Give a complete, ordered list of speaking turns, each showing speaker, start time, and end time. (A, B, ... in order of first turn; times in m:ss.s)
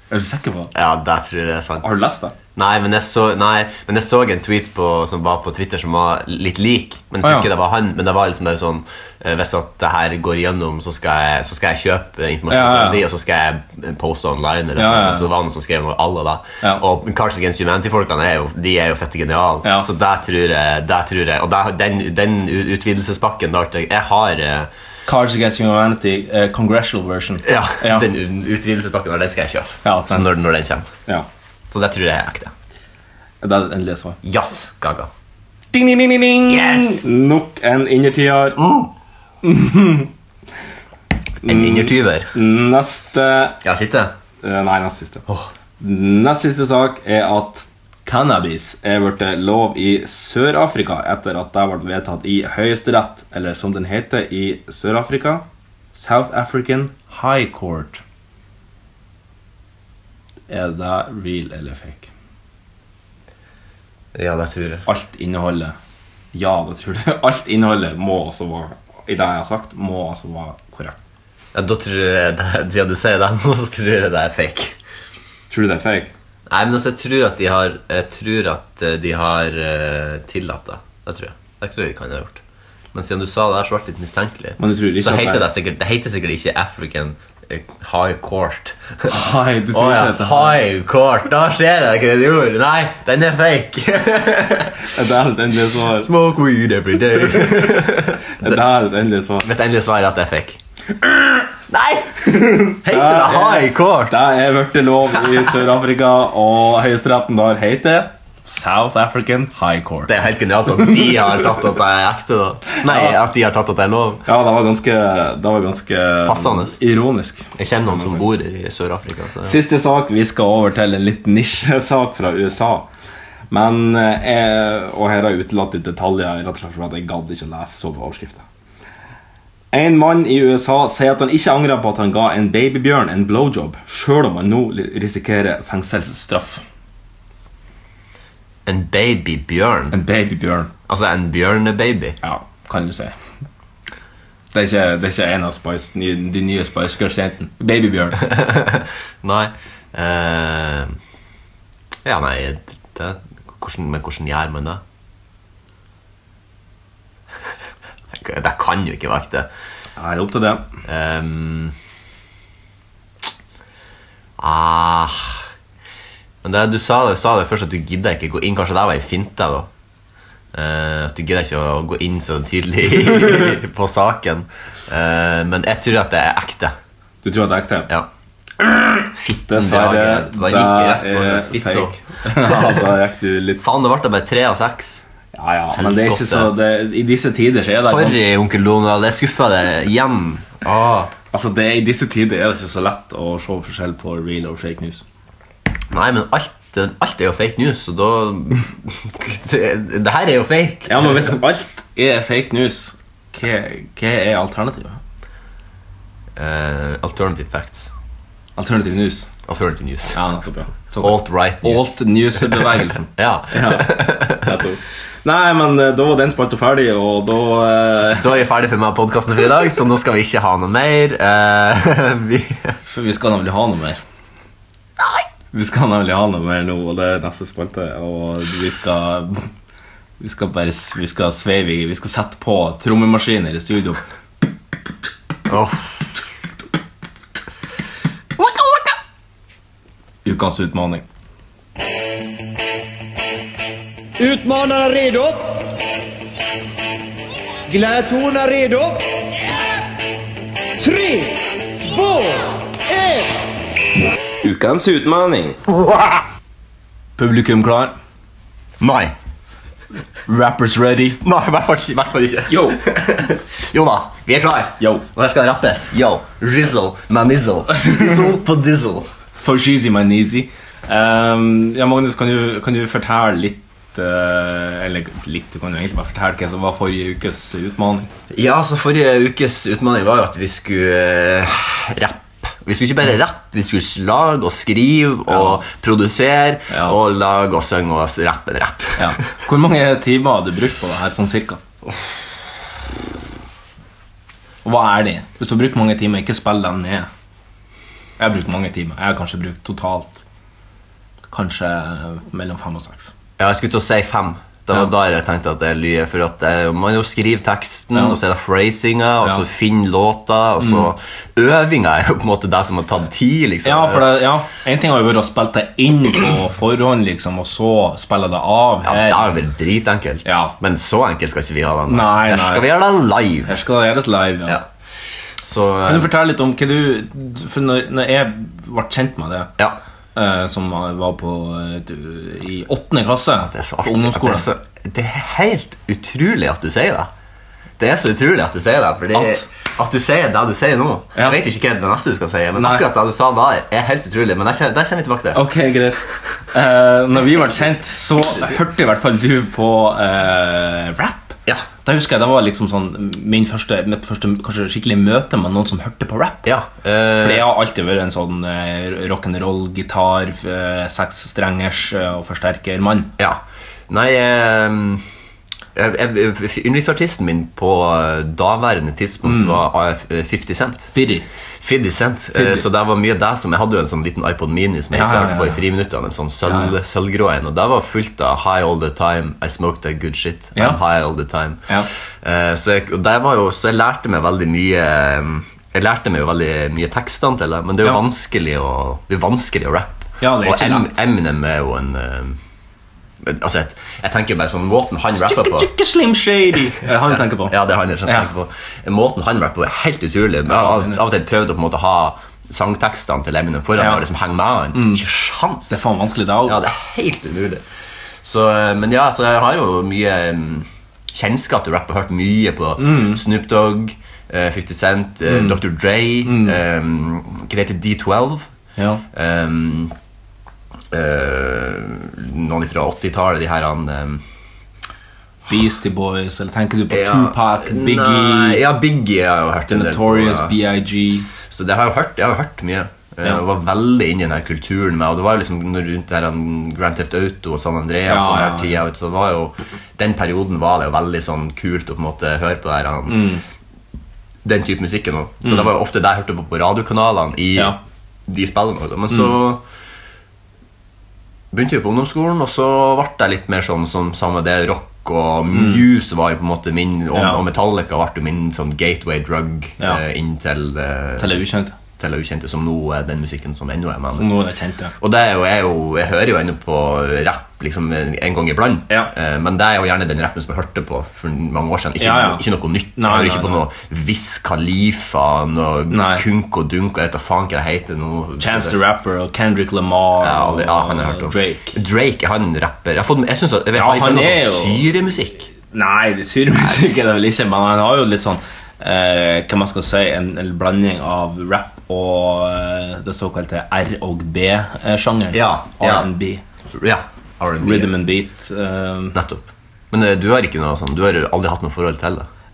0:00.1-0:00.7 A
0:00.7-0:01.9 B
0:01.8-0:02.3 A
0:02.6-0:24.7 B
0:07.2-0:07.5 A
0:12.5-0:13.0 A
0:14.8-0:15.3 A
0:25.0-0:28.1 A
0:27.4-0:30.9 B
0:29.8-0:30.3 A
0:31.7-0:32.5 B
0:33.4-0:34.2 A
0:34.2-0:35.1 B
0:35.7-0:38.6 A
0:36.5-0:37.1 B
0:38.6-0:38.9 B
0:39.4-0:40.1 A
0:41.4-0:42.3 B
0:41.4-0:43.6 A
0:43.6-0:44.1 B
0:44.4-0:45.2 A
0:45.8-0:58.0 A
1:00.5-1:02.1 A
1:04.1-1:04.8 B
1:04.8-1:05.7 A
1:06.3-1:11.0 A
1:11.5-1:14.8 B
1:15.5-1:16.1 A
1:16.5-1:22.4 B
1:22.9-1:29.2 B
1:24.6-1:25.5 A
1:29.1-1:30.6 A
1:29.7-1:34.9 B
1:34.9-1:36.1 A
1:36.0-1:38.6 B
1:38.4-1:39.5 A
1:39.4-1:40.6 B
1:41.1-1:41.4 A
1:41.7-1:44.2 B
1:42.2-1:50.1 A
1:50.1-1:54.2 B
1:52.9-1:53.1 A
1:54.2-1:58.2 A
1:56.2-1:56.8 B
1:57.6-1:59.6 B
1:59.4-2:02.9 A
2:03.5-2:08.4 A
2:09.7-2:16.6 A
2:18.6-2:20.0 B
2:19.9-2:20.7 A
2:20.9-2:22.2 B
2:22.2-2:23.1 A
2:24.5-2:28.2 A
2:28.2-2:31.0 B
2:32.0-2:34.8 B
2:38.1-2:39.5 B
2:40.0-2:40.6 A
2:40.8-2:41.7 B
2:44.4-2:45.5 B
2:46.4-2:49.7 B
2:50.5-2:56.7 B
2:57.2-2:57.9 A
2:58.6-3:03.6 A
2:59.2-3:02.8 B
3:03.6-3:05.0 B
3:05.3-3:08.2 A
3:05.7-3:06.5 B
3:07.8-3:11.1 B
3:11.3-3:15.0 A
3:15.9-3:21.3 B
3:20.9-3:25.0 A
3:26.4-3:27.9 B
3:28.6-3:29.3 A
3:29.4-3:30.2 B
3:30.1-3:38.3 A
3:31.0-3:34.6 B
3:38.2-3:42.8 B
3:42.9-3:44.0 A
3:45.5-3:49.5 A
3:50.2-3:54.0 A
3:55.5-3:56.1 B
3:58.4-3:58.9 B
4:00.2-4:01.0 A
4:04.2-4:05.4 C
4:07.7-4:09.0 C
4:10.8-4:11.3 C
4:11.9-4:12.4 C
4:12.9-4:13.2 C
4:14.4-4:15.6 A
4:17.2-4:17.9 A
4:18.8-4:19.1 B
4:20.3-4:21.2 A
4:21.2-4:29.1 B
4:22.5-4:22.8 A
4:24.8-4:25.0 A
4:29.4-4:38.1 A
4:38.3-4:49.2 B
4:46.7-4:47.0 A
4:49.0-4:51.6 A
4:54.6-4:57.1 A
4:58.2-5:00.2 A
5:01.3-5:03.1 A
5:03.4-5:14.2 B
5:10.6-5:10.9 A
5:13.6-5:19.3 A
5:18.8-5:23.5 B
5:20.2-5:20.5 A
5:21.9-5:22.8 A
5:23.4-5:24.6 A
5:25.4-5:26.1 B
5:25.8-5:29.5 A
5:30.2-5:34.5 A
5:33.4-5:37.1 B
5:37.8-5:45.4 B
5:39.1-5:39.4 A
5:42.6-5:42.8 A
5:45.3-5:56.5 A
5:56.4-5:57.5 B
5:57.2-6:03.1 A
6:03.2-6:05.0 B
6:05.7-6:10.9 B
6:09.2-6:09.6 A
6:10.9-6:11.2 A
6:11.6-6:32.4 B
6:12.3-6:12.6 A
6:14.9-6:15.6 A
6:16.5-6:16.7 A
6:20.5-6:20.8 A
6:30.2-6:31.0 A
6:33.2-6:35.7 B
6:35.2-6:38.3 A
6:37.1-6:45.8 B
6:40.5-6:41.0 A
6:43.8-6:44.0 A
6:44.7-6:45.0 A
6:45.7-6:46.6 A
6:46.4-6:47.6 B
6:48.2-6:58.5 B
6:52.8-6:53.2 A
6:55.3-6:55.6 A
6:56.2-6:56.6 A
6:58.8-6:59.0 A
6:59.1-6:59.9 B
7:00.9-7:04.2 B
7:05.5-7:08.6 A
7:06.9-7:10.5 B
7:09.7-7:11.3 A
7:11.4-7:23.4 B
7:18.0-7:18.8 A
7:23.1-7:23.4 A
7:24.4-7:29.6 B
7:25.4-7:25.7 A
7:31.5-7:41.4 B
7:35.5-7:35.8 A
7:37.1-7:37.4 A
7:41.2-7:41.7 A
7:42.0-7:44.3 B
7:44.2-7:44.9 A
7:45.0-7:58.8 B
7:52.0-7:53.6 A
7:55.9-7:56.2 A
7:58.4-8:01.8 A
8:00.2-8:05.5 B
8:03.7-8:04.8 A
8:05.7-8:16.4 A
8:15.3-8:16.1 B
8:16.8-8:17.9 B
8:17.6-8:19.2 A
8:19.1-8:22.3 B